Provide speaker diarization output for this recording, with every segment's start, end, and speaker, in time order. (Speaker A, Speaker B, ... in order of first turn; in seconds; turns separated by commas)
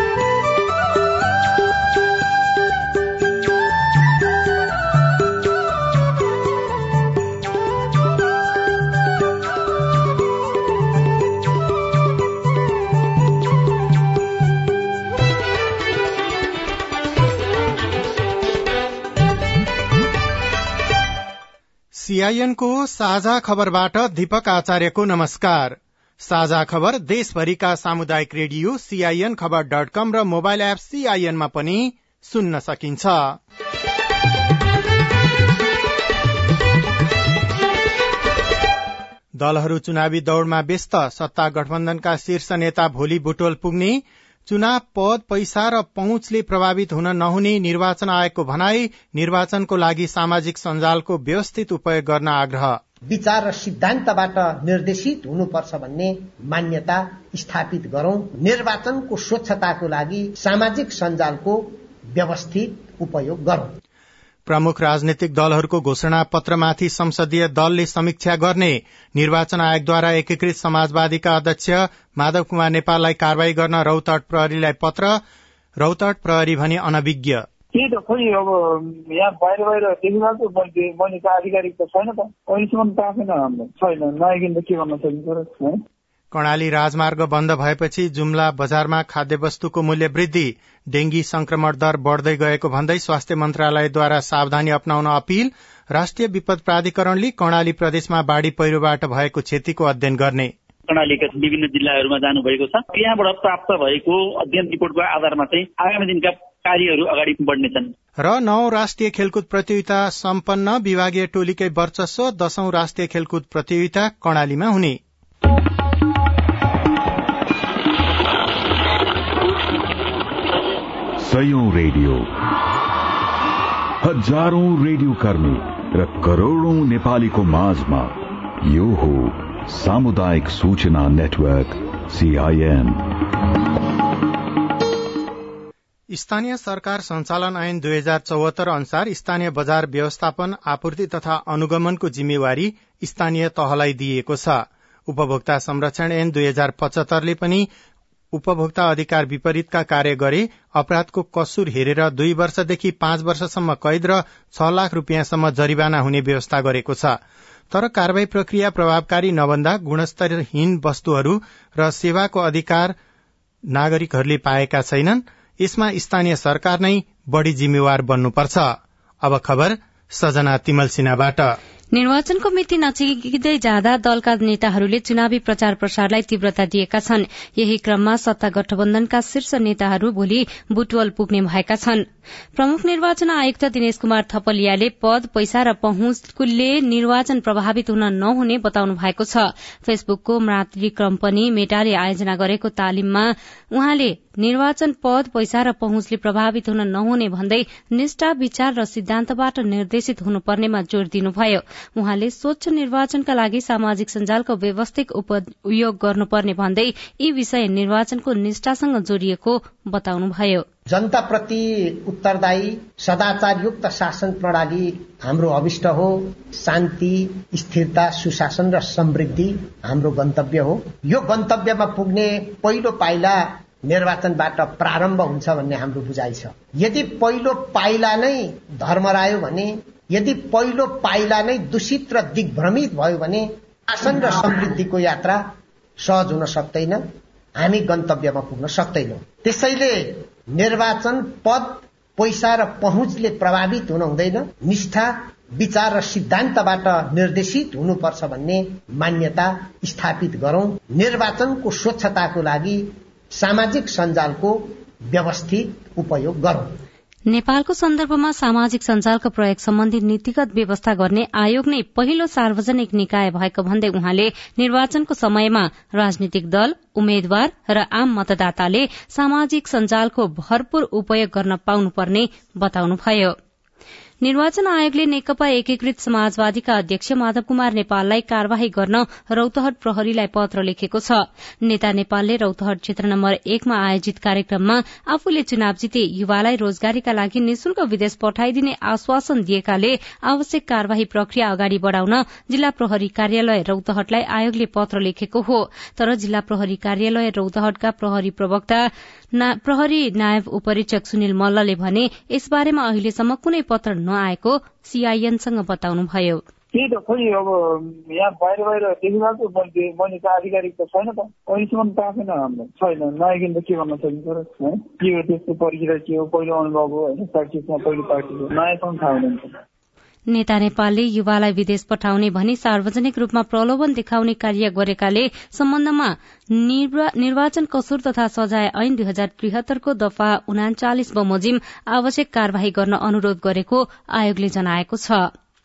Speaker A: 22.0-33.4, Speaker A: 39.3-52.8, Speaker B: 53.1-63.7, Speaker A: 64.5-75.2, Speaker A: 75.8-77.4, Speaker C: 77.7-85.8, Speaker A: 86.3-100.5, Speaker D: 100.9-107.9, Speaker A: 108.2-115.0, Speaker E: 121.2-122.3, Speaker E: 124.0-133.1, Speaker A: 136.1-147.7, Speaker A: 148.3-157.2, Speaker A: 157.7-162.9, Speaker A: 163.7-171.5, Speaker F: 171.9-210.7, Speaker B: 210.9-235.4, Speaker B: 236.0-237.1, Speaker B: 237.6-256.7, Speaker F: 257.3-273.4, Speaker F: 274.2-306.4, Speaker C: 306.7-307.5, Speaker C: 308.1-319.4, Speaker F: 320.3-335.3